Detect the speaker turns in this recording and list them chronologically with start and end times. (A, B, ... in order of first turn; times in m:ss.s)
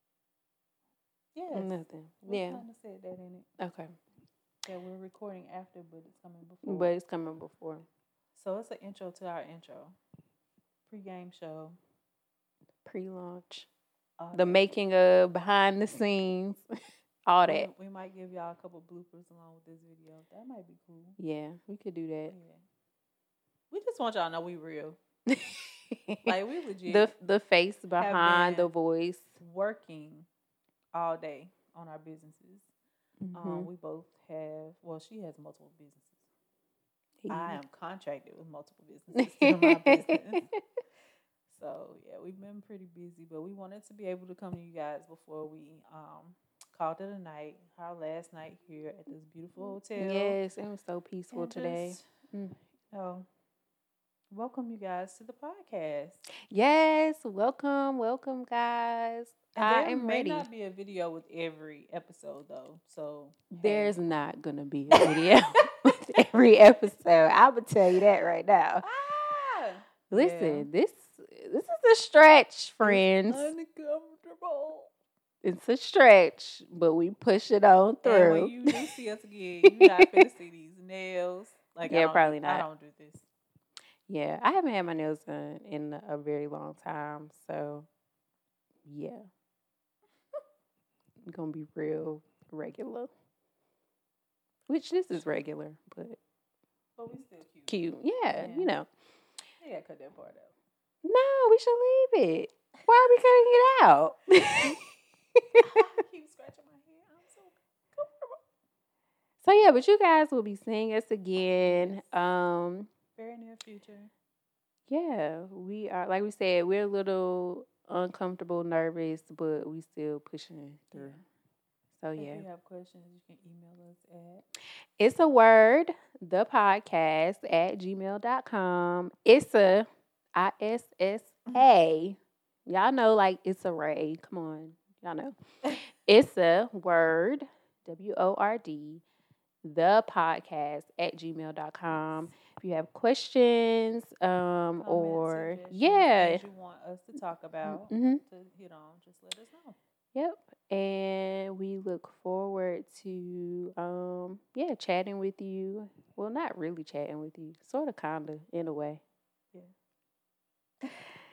0:01.3-0:03.5 A
0:01.5-0:02.6 B
0:03.6-0:03.9 B
0:04.6-0:06.9 A
0:06.6-0:07.8 B
0:08.3-0:10.0 A
0:10.9-0:11.8 A
0:12.8-0:13.7 B
0:14.2-0:14.7 A
0:14.3-0:16.6 B
0:17.3-0:17.7 B
0:17.4-0:21.2 A
0:21.2-0:22.3 B
0:22.3-0:22.6 A
0:23.7-0:25.0 A
0:25.3-0:26.3 B
0:26.2-0:27.1 A
0:26.9-0:29.3 B
0:28.0-0:28.7 A
0:29.4-0:30.3 A
0:30.9-0:32.7 A
0:33.2-0:33.7 B
0:33.3-0:36.2 A
0:37.2-0:37.6 B
0:37.3-0:40.5 A
0:39.2-0:40.6 B
0:41.5-0:50.4 A
0:50.0-0:52.6 B
0:51.3-0:52.0 A
0:52.9-0:53.2 A
0:54.3-0:56.2 A
0:56.5-1:00.4 B
0:59.5-1:04.0 A
1:03.5-1:08.8 B
1:04.9-1:05.4 A
1:08.8-1:10.7 A
1:10.1-1:13.5 B
1:12.8-1:14.9 A
1:15.4-1:18.8 B
1:18.0-1:23.2 A
1:19.8-1:20.1 B
1:21.8-1:22.6 B
1:24.1-1:27.9 B
1:28.8-1:29.2 B
1:31.3-1:33.1 B
1:34.7-1:36.2 B
1:37.0-1:38.7 A
1:37.7-1:38.9 B
1:39.6-1:40.5 A
1:41.0-1:44.8 B
1:45.6-1:48.4 A
1:49.4-1:52.9 B
1:51.6-1:52.1 A
1:53.1-1:54.1 A
1:54.9-2:01.2 B
2:00.9-2:01.2 A
2:02.0-2:02.4 B
2:02.2-2:04.4 A
2:05.0-2:15.3 B
2:16.0-2:19.0 B
2:19.6-2:26.4 B
2:24.8-2:29.8 A
2:27.6-2:28.2 B
2:30.1-2:39.0 B